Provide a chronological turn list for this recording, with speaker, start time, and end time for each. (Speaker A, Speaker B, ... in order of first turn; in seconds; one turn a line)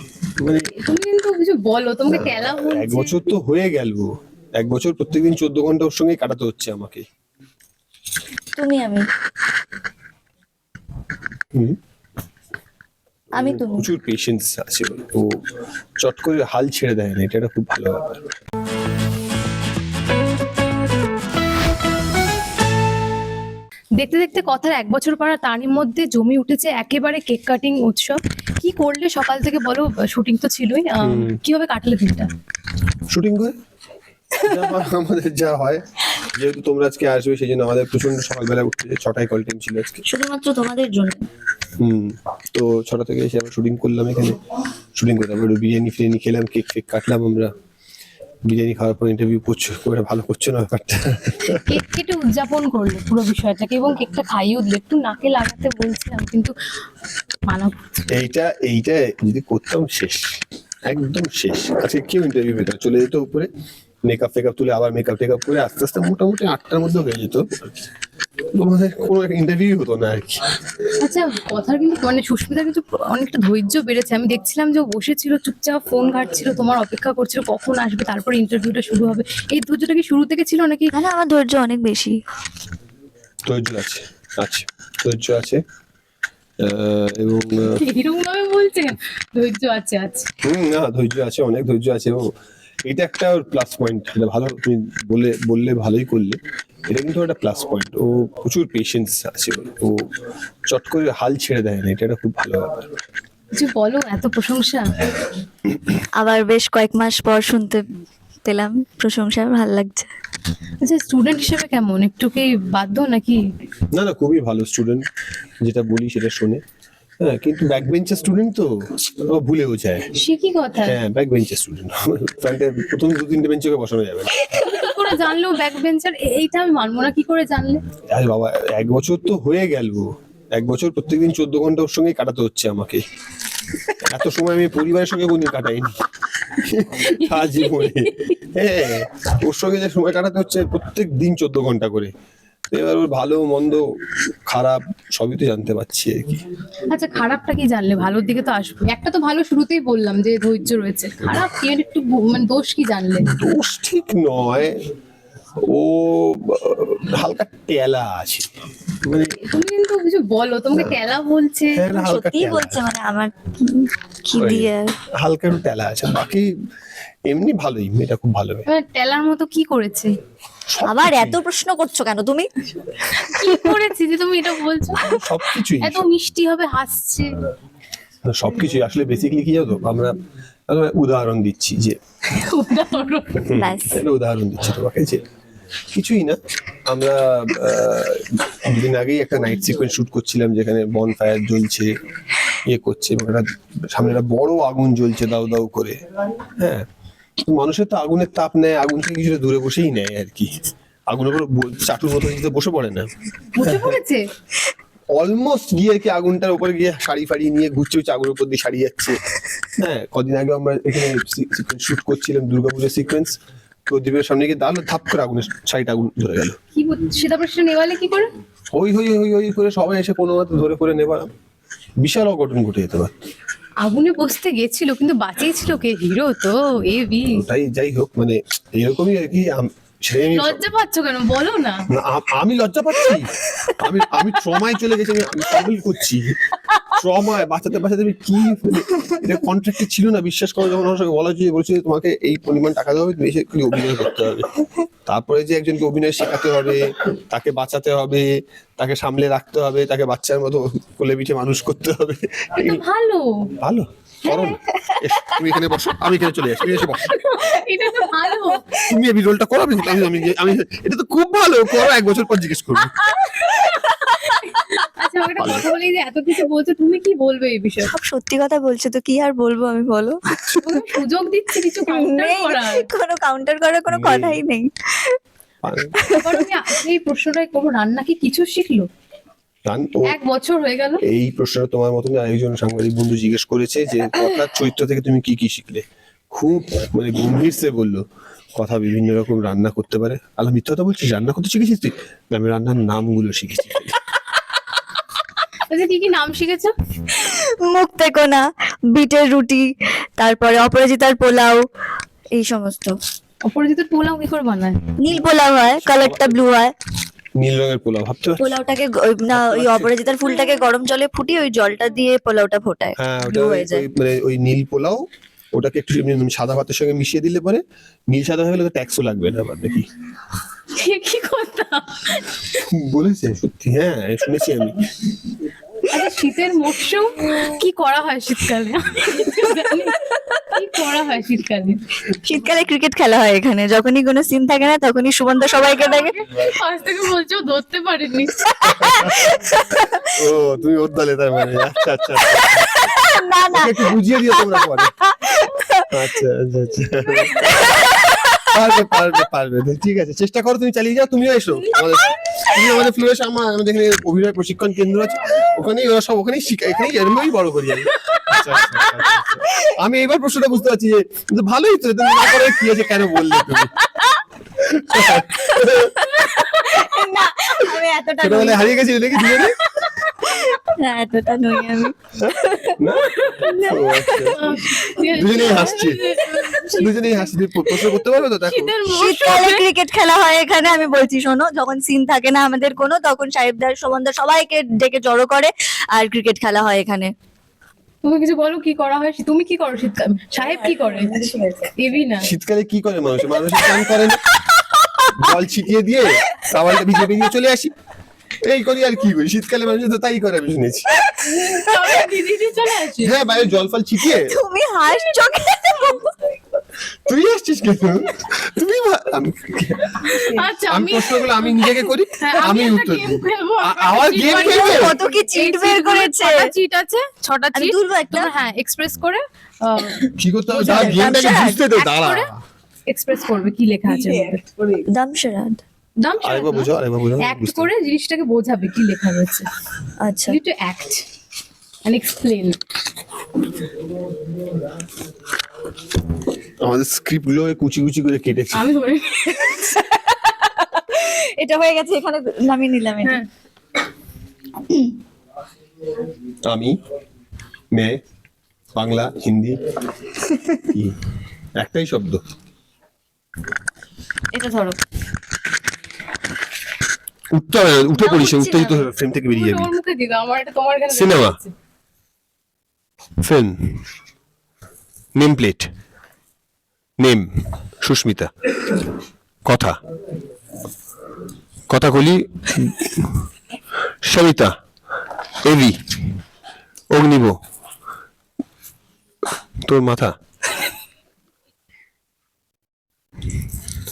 Speaker A: 0.4-0.7
Speaker B: 0.8-3.2
Speaker A: 2.1-7.0
Speaker C: 8.6-9.1
Speaker C: 13.4-13.9
Speaker A: 13.4-15.3
Speaker A: 16.0-18.3
Speaker B: 24.0-32.3
Speaker A: 31.0-31.4
Speaker A: 33.1-33.5
Speaker A: 34.4-40.0
Speaker C: 40.0-41.2
Speaker A: 41.8-44.4
Speaker A: 45.0-47.5
Speaker A: 48.5-51.7
Speaker B: 51.7-56.5
Speaker B: 57.5-58.0
Speaker A: 58.1-60.2
Speaker A: 60.9-63.5
Speaker A: 64.1-67.8
Speaker A: 68.5-70.4
Speaker B: 71.0-80.9
Speaker C: 80.9-82.2
Speaker A: 83.5-85.6
Speaker A: 86.6-87.8
Speaker B: 87.8-90.3
Speaker A: 90.4-92.2
Speaker A: 92.8-100.0
Speaker A: 100.7-102.9
Speaker B: 103.5-105.1
Speaker C: 106.2-107.8
Speaker C: 108.4-110.1
Speaker B: 110.8-113.4
Speaker A: 113.9-115.0
Speaker A: 115.6-116.6
Speaker A: 117.2-120.0
Speaker B: 120.2-121.0
Speaker A: 120.8-124.4
Speaker B: 124.5-127.8
Speaker A: 128.1-133.0
Speaker A: 134.0-136.0
Speaker A: 136.5-142.1
Speaker B: 137.1-138.3
Speaker A: 142.7-143.8
Speaker A: 144.5-146.4
Speaker B: 146.9-153.2
Speaker A: 153.3-154.8
Speaker A: 155.7-158.5
Speaker A: 159.0-159.3
Speaker B: 159.5-161.8
Speaker A: 161.7-162.8
Speaker C: 161.9-164.9
Speaker A: 164.4-166.5
Speaker A: 167.3-168.7
Speaker B: 168.7-170.1
Speaker A: 170.7-171.4
Speaker C: 170.8-172.5
Speaker B: 173.2-175.0
Speaker C: 173.4-173.7
Speaker A: 175.0-176.1
Speaker B: 175.8-177.3
Speaker A: 178.2-180.1
Speaker A: 180.7-182.0
Speaker B: 182.3-183.4
Speaker A: 183.4-185.2
Speaker C: 183.6-184.0
Speaker A: 185.9-191.9
Speaker A: 192.7-196.0
Speaker A: 196.6-196.8
Speaker A: 197.4-200.5
Speaker A: 201.1-203.1
Speaker B: 203.5-204.2
Speaker A: 203.6-203.9
Speaker A: 205.2-209.2
Speaker A: 209.8-213.3
Speaker A: 213.9-216.6
Speaker B: 216.7-218.3
Speaker A: 218.7-221.3
Speaker A: 222.0-223.1
Speaker B: 223.8-227.4
Speaker A: 227.3-230.6
Speaker B: 230.3-231.8
Speaker A: 231.9-244.5
Speaker A: 245.1-248.3
Speaker A: 248.8-252.8
Speaker B: 252.6-253.5
Speaker A: 253.6-257.2
Speaker B: 254.2-254.6
Speaker B: 256.8-258.8
Speaker A: 258.8-263.0
Speaker C: 263.1-263.8
Speaker B: 263.3-267.9
Speaker A: 265.3-265.7
Speaker C: 267.8-270.8
Speaker B: 270.6-272.9
Speaker C: 271.8-275.2
Speaker A: 273.9-274.4
Speaker A: 275.6-276.0
Speaker C: 276.0-276.5
Speaker B: 276.1-278.9
Speaker A: 279.7-280.1
Speaker B: 280.1-281.0
Speaker A: 281.0-288.0
Speaker A: 288.6-294.0
Speaker B: 295.7-296.7
Speaker C: 297.1-301.6
Speaker C: 302.4-302.9
Speaker B: 303.5-304.8
Speaker C: 305.0-306.7
Speaker A: 305.8-306.3
Speaker A: 307.4-308.6
Speaker C: 308.4-313.8
Speaker A: 309.3-309.9
Speaker A: 313.0-315.0
Speaker A: 315.5-319.9
Speaker B: 320.7-322.4
Speaker A: 322.5-324.9
Speaker B: 325.9-330.0
Speaker C: 330.0-330.6
Speaker B: 330.5-331.8
Speaker C: 332.1-336.2
Speaker B: 335.7-338.5
Speaker C: 338.5-340.2
Speaker A: 338.6-339.3
Speaker A: 340.1-342.8
Speaker C: 341.8-346.1
Speaker A: 343.5-344.9
Speaker A: 345.9-347.6
Speaker C: 347.1-348.8
Speaker A: 348.5-363.7
Speaker C: 351.7-352.8
Speaker C: 358.8-359.7
Speaker C: 362.1-362.6
Speaker C: 363.6-364.2
Speaker A: 364.6-366.1
Speaker C: 364.9-376.9
Speaker A: 368.2-369.6
Speaker A: 372.2-374.5
Speaker B: 374.3-379.6
Speaker A: 375.1-376.0
Speaker A: 376.7-378.7
Speaker C: 378.9-387.1
Speaker B: 388.0-392.3
Speaker C: 390.4-391.7
Speaker A: 392.2-394.2
Speaker C: 394.5-395.1
Speaker A: 395.1-397.7
Speaker A: 398.4-400.9
Speaker C: 400.9-402.0
Speaker B: 401.2-403.2
Speaker A: 403.0-404.4
Speaker C: 404.0-406.4
Speaker A: 407.0-414.9
Speaker B: 410.1-421.2
Speaker C: 414.4-416.5
Speaker C: 417.5-418.3
Speaker C: 419.8-420.1
Speaker A: 420.1-422.4
Speaker C: 420.6-421.6
Speaker B: 421.7-422.3
Speaker B: 422.9-424.4
Speaker C: 423.9-425.6
Speaker B: 426.0-429.5
Speaker A: 426.2-427.7
Speaker C: 430.0-430.4
Speaker B: 430.3-431.0
Speaker B: 431.8-432.6
Speaker A: 436.6-438.7
Speaker B: 438.5-439.8
Speaker C: 439.6-443.2
Speaker A: 446.4-446.7
Speaker A: 448.7-449.6
Speaker A: 450.6-450.9
Speaker A: 451.6-452.2
Speaker C: 454.3-454.8
Speaker A: 457.3-459.7
Speaker B: 457.9-461.5
Speaker A: 460.9-461.4
Speaker A: 463.2-463.6
Speaker A: 465.1-465.7
Speaker A: 467.0-467.3
Speaker A: 467.8-468.3
Speaker A: 469.4-469.8
Speaker A: 471.7-473.1
Speaker A: 474.0-474.5
Speaker A: 475.4-475.8
Speaker A: 476.9-477.4
Speaker A: 479.7-480.1